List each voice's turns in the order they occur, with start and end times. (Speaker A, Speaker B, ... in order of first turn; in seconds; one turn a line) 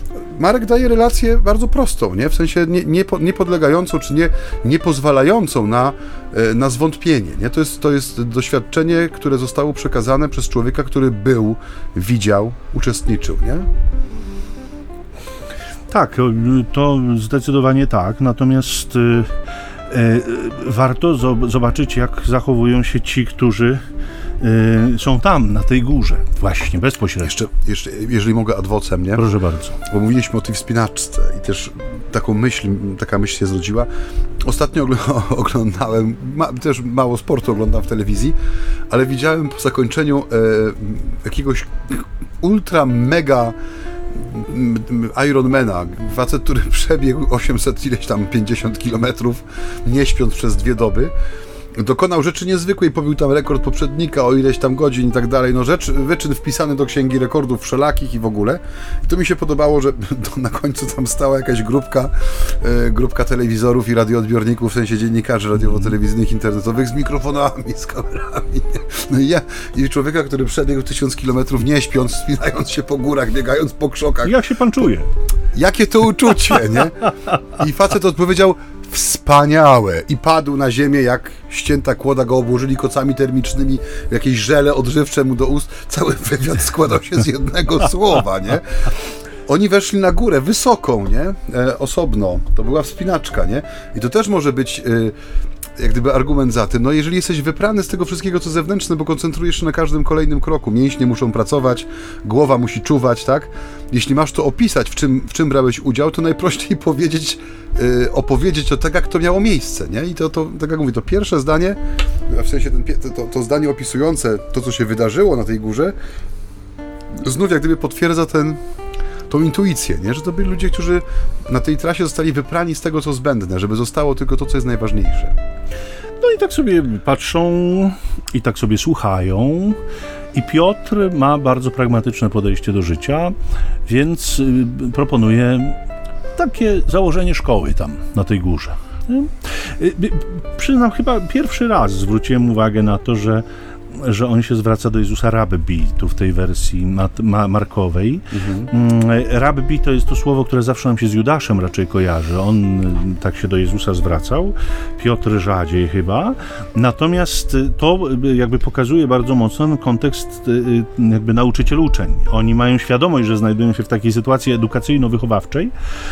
Speaker A: 0.2-13.7
Speaker B: 15.9-19.3
Speaker B: 19.9-23.8
Speaker B: 24.4-27.4
Speaker A: 27.2-29.3
Speaker B: 29.1-29.8
Speaker A: 29.8-33.9
Speaker A: 34.4-38.3
Speaker A: 38.9-43.5
Speaker A: 44.1-51.1
Speaker A: 51.7-74.3
Speaker B: 74.2-75.1
Speaker A: 75.5-88.8
Speaker A: 89.5-95.1
Speaker A: 95.8-115.9
Speaker A: 117.2-118.6
Speaker A: 119.3-125.4
Speaker B: 126.2-129.8
Speaker B: 130.3-133.3
Speaker B: 133.9-135.8
Speaker B: 136.3-165.7
Speaker A: 148.3-148.7